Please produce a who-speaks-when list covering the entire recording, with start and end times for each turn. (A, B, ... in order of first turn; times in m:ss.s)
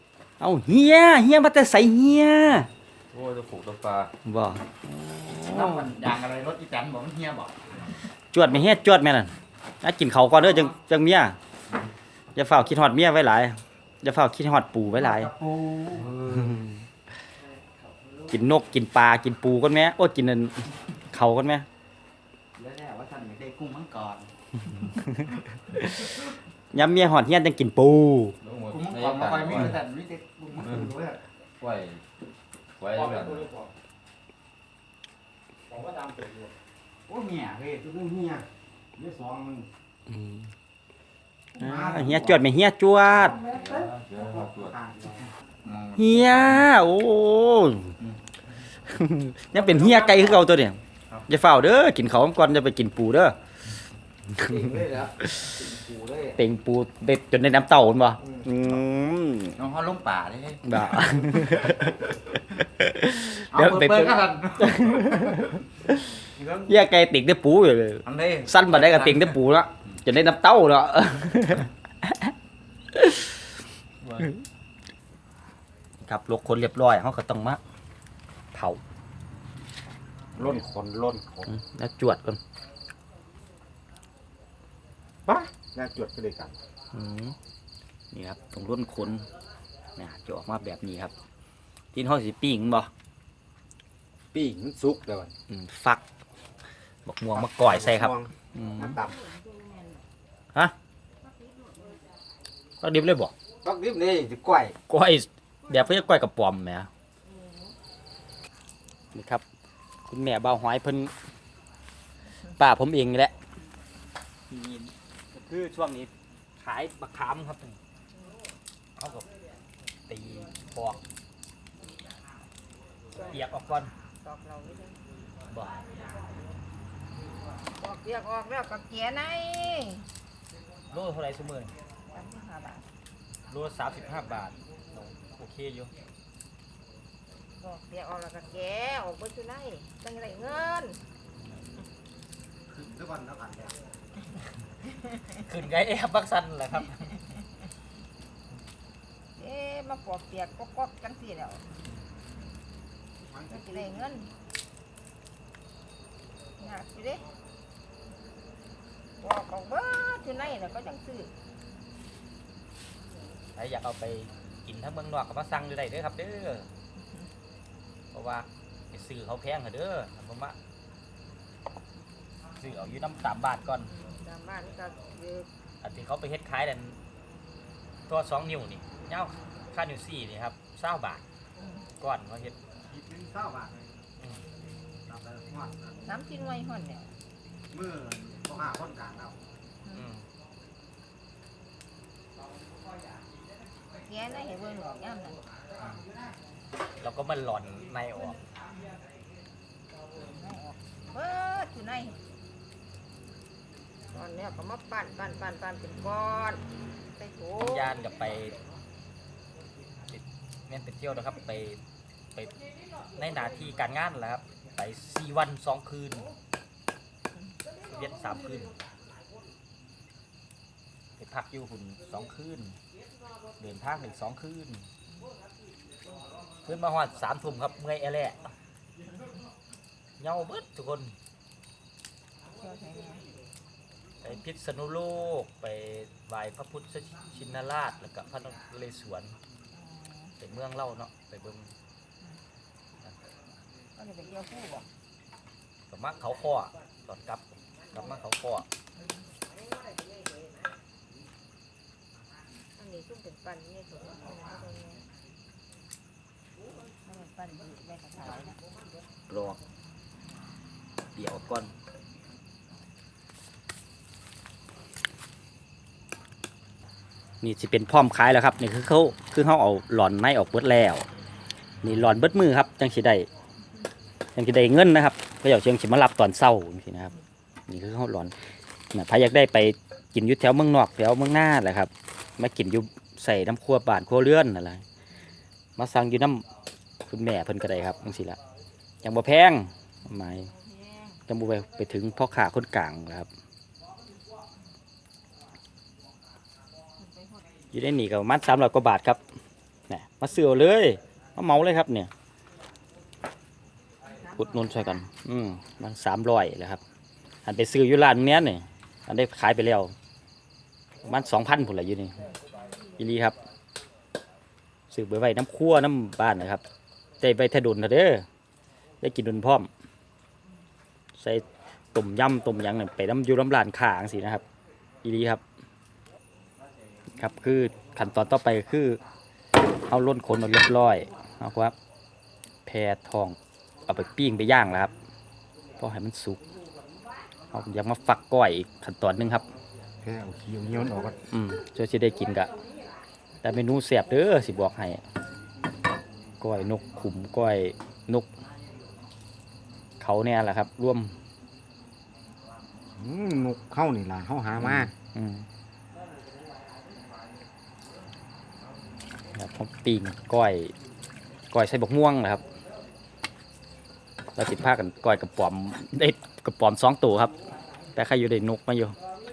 0:00.4-0:02.7 A
0:03.1-0:04.1 B
0:04.2-0:05.9 A
0:05.4-0:07.6 C
0:08.3-0:11.4 A
0:12.4-0:15.3 A
0:15.0-0:16.2 C
0:16.4-0:16.7 A
0:18.3-0:20.6 A
0:21.1-0:21.7 A
0:22.6-0:24.3 C
0:25.8-0:26.1 A
0:26.7-0:28.4 A
0:28.4-0:29.8 B
0:28.7-0:31.2 C
0:31.6-0:32.0 B
0:32.8-0:33.4 B
0:33.0-0:33.7 C
0:35.7-0:36.2 D
0:37.1-0:37.8 C
0:37.8-0:38.4 D
0:39.0-0:39.6 D
0:40.1-0:40.5 A
0:41.6-0:42.3 D
0:41.6-0:43.4 A
0:43.2-0:45.2 D
0:43.8-0:44.7 B
0:45.6-0:46.4 C
0:46.0-0:47.9 A
0:48.9-0:53.4 A
0:49.6-0:50.4 C
0:54.4-0:56.4 C
0:56.4-0:59.6 A
0:58.3-0:58.8 C
0:59.6-1:01.7 C
1:00.6-1:02.0 A
1:02.8-1:06.0 A
1:03.5-1:05.6 C
1:06.2-1:06.7 C
1:06.7-1:12.3 A
1:08.1-1:09.4 C
1:13.0-1:13.2 A
1:16.0-1:17.6 A
1:18.5-1:18.8 A
1:20.4-1:21.5 D
1:21.5-1:22.4 A
1:25.3-1:26.5 D
1:26.9-1:27.4 A
1:28.1-1:29.2 A
1:30.0-1:31.1 A
1:31.9-1:32.9 A
1:34.3-1:35.3 D
1:35.5-1:36.0 A
1:37.1-1:39.0 A
1:37.3-1:39.2 D
1:39.0-1:40.0 E
1:41.4-1:41.9 E
1:42.8-1:43.3 A
1:43.6-1:44.8 D
1:44.9-1:46.9 A
1:49.1-1:49.4 A
1:50.1-1:51.1 A
1:52.6-1:53.3 A
1:55.3-1:57.8 A
1:59.0-1:59.3 A
2:00.1-2:01.0 A
2:03.3-2:03.9 A
2:04.2-2:05.0 E
2:05.5-2:05.8 A
2:07.8-2:10.0 E
2:10.9-2:11.7 A
2:12.1-2:12.8 E
2:13.5-2:15.9 A
2:17.6-2:21.0 E
2:22.7-2:23.8 D
2:25.4-2:27.1 A
2:29.4-2:31.6 E
2:33.3-2:34.2 D
2:33.4-2:34.3 E
2:36.6-2:37.2 E
2:39.2-2:41.3 E
2:43.6-2:46.7 A
2:48.1-2:50.6 A
2:52.6-2:53.9 A
2:53.9-2:55.5 E
2:55.8-2:57.0 A
2:58.1-3:01.2 A
3:01.6-3:01.8 E
3:02.0-3:02.6 A
3:02.8-3:03.9 D
3:05.1-3:06.1 D
3:06.0-3:07.1 E
3:07.7-3:09.4 D
3:09.9-3:10.2 A
3:14.0-3:15.4 E
3:17.0-3:18.4 A
3:20.2-3:22.2 E
3:24.1-3:26.6 E
3:27.2-3:27.9 E
3:27.6-3:28.6 A
3:30.1-3:31.8 A
3:33.2-3:36.3 A
3:37.9-3:38.7 A
3:41.2-3:42.8 A
3:43.6-3:44.9 A
3:46.6-3:48.4 A
3:50.2-3:51.2 A
3:52.5-3:53.3 E
3:54.2-3:59.4 A
3:59.7-4:00.3 E
4:00.4-4:01.7 A
4:04.0-4:04.9 E
4:05.9-4:08.6 A
4:12.8-4:15.0 E
4:17.0-4:18.6 E
4:19.3-4:19.6 A
4:21.2-4:21.7 A
4:27.4-4:31.1 A
4:31.8-4:33.3 A
4:34.4-4:37.2 A
4:37.7-4:38.4 A
4:38.9-4:44.8 A
4:45.8-4:46.4 A
4:47.0-4:48.4 A
4:49.0-4:50.5 A
4:50.5-4:51.2 E
4:51.3-4:53.3 A
4:57.0-4:57.4 E
4:57.7-4:59.2 A
4:59.9-5:02.1 A
5:04.0-5:05.0 E
5:04.4-5:06.8 A
5:07.4-5:09.9 A
5:11.0-5:12.3 A
5:13.0-5:13.4 A
5:14.9-5:16.6 A
5:17.2-5:18.2 A
5:19.0-5:19.7 A
5:21.2-5:24.4 A
5:25.0-5:25.4 A
5:27.2-5:29.0 A
5:29.9-5:31.8 A
5:32.7-5:34.9 A
5:35.8-5:36.4 A
5:37.5-5:39.5 A
5:40.0-5:41.2 D
5:41.3-5:42.5 A
5:43.4-5:45.0 A
5:46.4-5:48.3 A
5:50.0-5:51.1 A
5:53.0-5:54.9 D
5:54.5-5:55.4 A
5:59.3-6:00.7 A
6:01.5-6:02.4 A
6:04.4-6:07.3 A
6:08.0-6:09.0 A